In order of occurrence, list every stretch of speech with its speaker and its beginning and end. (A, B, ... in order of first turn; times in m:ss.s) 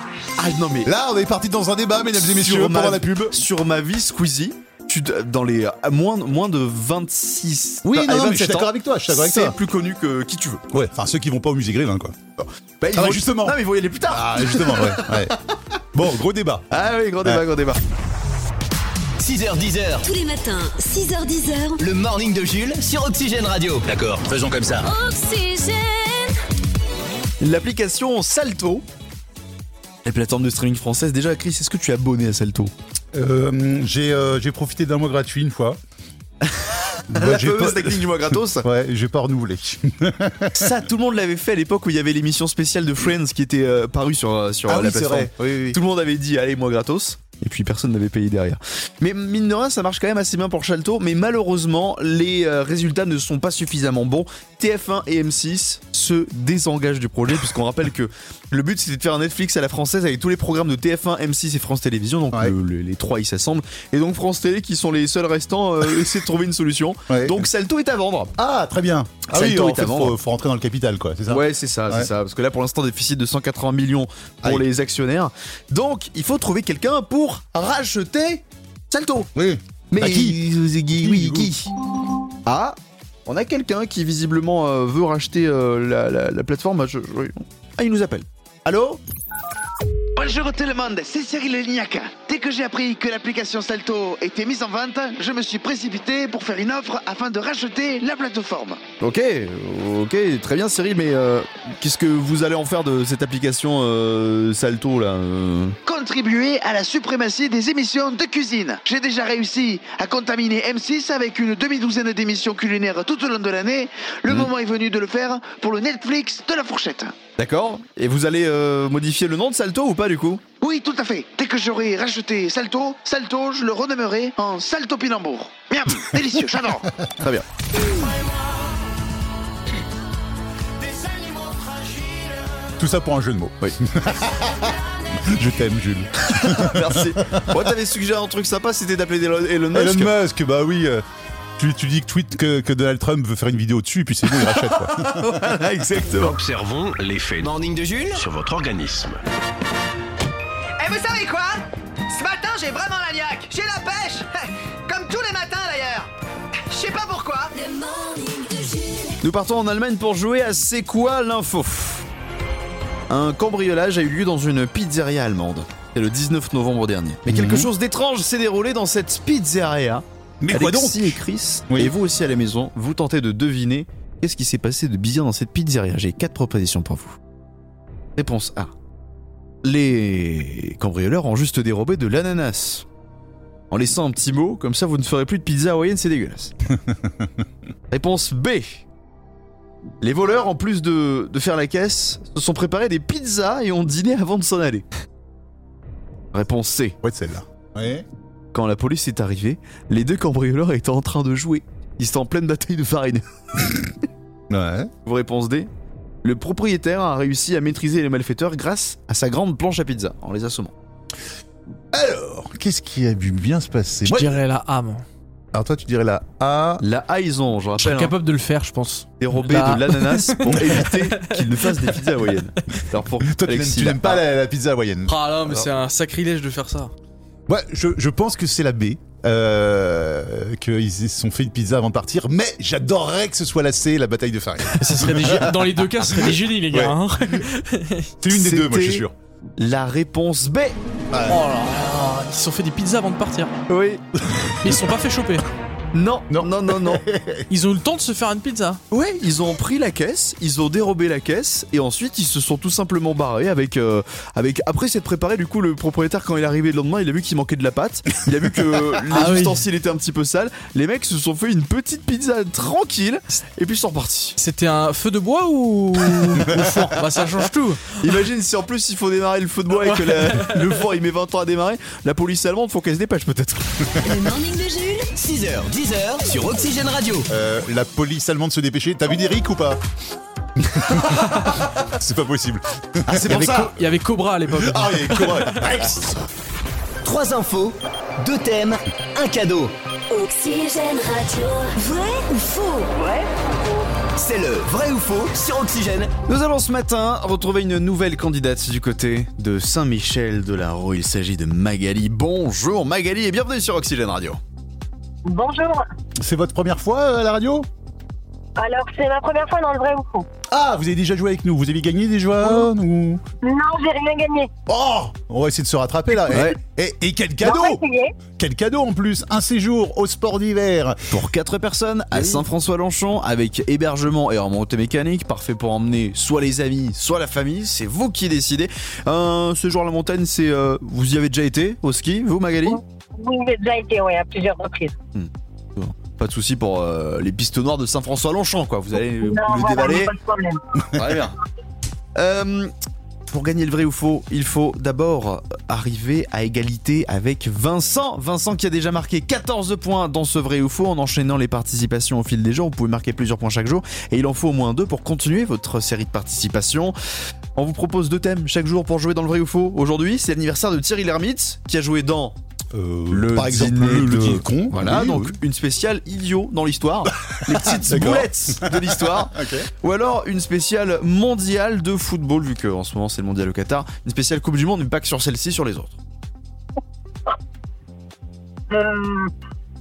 0:00.4-0:00.9 A
0:00.8-0:03.4 B
0:02.3-0:10.6 A
0:07.8-0:09.6 B
0:10.7-0:12.2 B
0:12.4-0:15.5 A
0:12.9-0:15.4 B
0:15.9-0:16.7 B
0:16.7-0:17.8 A
0:19.2-0:20.1 C
0:20.0-0:21.8 D
0:21.8-0:24.9 C
0:24.8-0:26.4 D
0:27.4-0:28.8 A
0:30.0-0:32.7 A
0:33.1-0:35.8 B
0:36.4-0:38.7 A
0:37.1-0:40.7 B
0:40.5-1:08.3 A
0:44.6-0:45.8 B
1:07.1-1:07.5 B
1:08.4-1:12.1 B
1:09.3-1:10.2 A
1:11.3-1:19.3 A
1:19.3-1:21.5 B
1:19.9-1:21.7 A
1:22.4-1:29.0 A
1:30.2-1:38.8 E
1:39.0-1:45.8 A
1:45.8-1:57.1 E
1:57.4-2:00.4 A
2:00.6-2:06.9 E
2:07.2-2:07.4 A
2:12.8-2:17.6 B
2:16.2-2:20.2 A
2:19.7-2:21.0 B
2:21.6-2:25.3 B
2:24.6-2:26.4 A
2:26.2-2:27.6 F
2:27.4-2:28.2 C
2:28.1-2:29.2 F
2:30.8-2:36.1 E
2:36.7-2:37.5 E
2:37.5-2:39.2 D
2:39.2-2:42.1 A
2:43.1-2:57.2 A
2:47.3-2:47.7 B
2:50.4-2:51.9 B
2:58.2-2:58.7 A
2:59.6-3:02.8 A
3:03.7-3:06.5 A
3:06.9-3:07.3 B
3:07.9-3:08.8 A
3:10.0-3:14.9 A
3:16.3-3:17.0 A
3:17.0-3:18.0 B
3:18.5-3:23.9 A
3:24.5-3:24.9 B
3:25.0-3:25.7 A
3:26.2-3:30.7 A
3:31.9-3:34.3 B
3:34.0-3:35.0 G
3:35.5-3:36.8 B
3:36.8-3:38.1 A
3:37.8-3:42.0 G
3:39.2-3:44.2 A
3:40.5-3:40.8 B
3:43.2-3:45.7 B
3:45.0-3:46.9 G
3:47.5-3:57.4 B
3:54.7-3:58.1 G
3:58.2-3:59.1 B
3:58.3-3:59.0 A
3:59.6-4:00.8 A
4:01.1-4:01.4 B
4:01.3-4:03.5 G
4:03.7-4:04.0 A
4:04.4-4:04.7 B
4:04.6-4:05.4 G
4:05.9-4:07.0 A
4:06.3-4:07.4 B
4:07.5-4:08.8 G
4:08.9-4:24.4 A
4:19.1-4:19.6 G
4:24.4-4:27.9 G
4:28.0-4:34.0 A
4:29.8-4:30.8 G
4:34.0-4:35.1 D
4:35.1-4:37.3 C
4:37.3-4:39.8 B
4:40.6-4:43.7 B
4:43.1-4:45.8 G
4:44.5-4:46.3 B
4:47.0-4:49.7 C
4:50.1-4:53.3 D
4:54.1-4:56.1 C
4:56.3-5:04.4 A
5:05.2-5:05.8 H
5:06.2-5:07.7 B
5:08.6-5:10.2 H
5:10.5-5:13.2 B
5:13.4-5:14.5 H
5:14.7-5:17.8 B
5:16.3-5:16.6 A
5:17.4-5:18.1 H
5:18.4-5:21.0 B
5:21.1-5:32.8 A
5:22.1-5:22.4 B
5:32.6-5:35.0 H
5:35.1-5:40.1 A
5:39.0-5:40.6 H
5:40.9-5:41.3 A
5:42.2-5:42.7 A
5:43.3-5:56.9 A
5:57.6-6:02.4 A
6:02.7-6:05.3 B
6:03.1-6:16.0 A
6:07.5-6:09.7 B
6:18.7-6:19.3 H